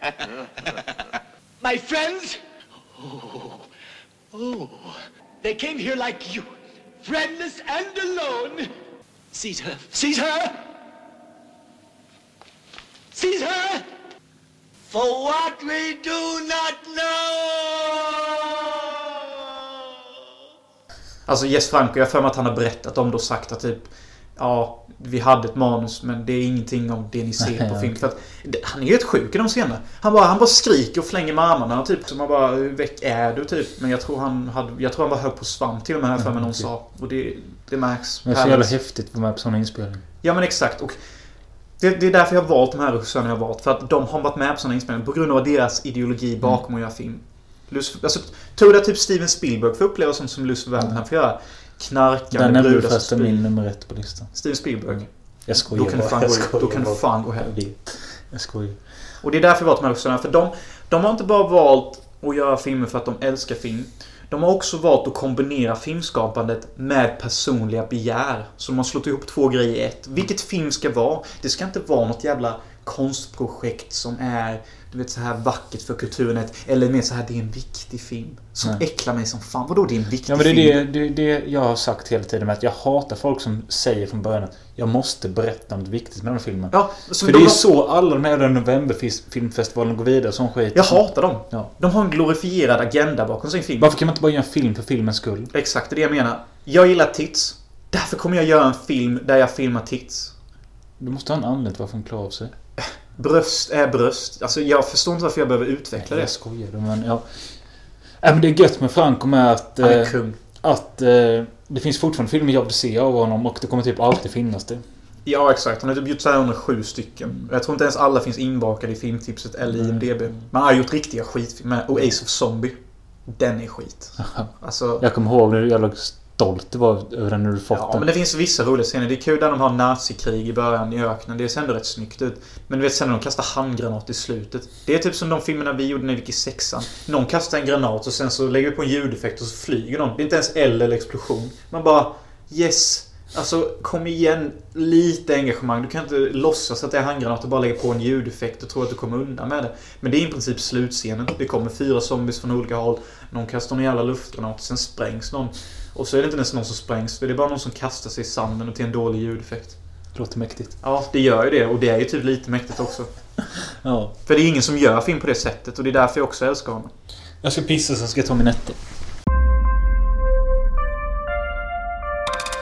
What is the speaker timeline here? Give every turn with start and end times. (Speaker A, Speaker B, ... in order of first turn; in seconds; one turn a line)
Speaker A: 1.6-2.4
Speaker A: 3.0-3.6
Speaker A: 4.3-6.5
Speaker A: 7.0-8.7
Speaker A: 9.3-10.6
Speaker A: 13.1-13.8
Speaker A: 14.9-19.5
Speaker B: 21.3-38.7
Speaker C: 27.4-27.9
Speaker C: 36.2-36.6
Speaker C: 38.2-40.0
Speaker B: 40.2-41.0
Speaker B: 41.8-53.5
Speaker C: 52.3-54.4
Speaker B: 54.3-57.7
Speaker C: 54.9-58.8
Speaker B: 59.2-80.8
Speaker C: 80.2-91.7
Speaker B: 86.7-87.7
Speaker B: 90.7-93.9
Speaker C: 93.8-95.5
Speaker B: 95.5-100.3
Speaker C: 101.0-102.5
Speaker B: 102.8-106.3
Speaker C: 106.0-107.6
Speaker C: 108.2-114.8
Speaker B: 109.8-110.4
Speaker B: 115.2-125.0
Speaker C: 119.7-120.5
Speaker C: 124.2-128.0
Speaker B: 127.7-159.8
Speaker C: 160.1-160.7
Speaker B: 160.8-163.1
Speaker C: 163.8-164.1
Speaker B: 164.2-166.9
Speaker C: 167.4-168.8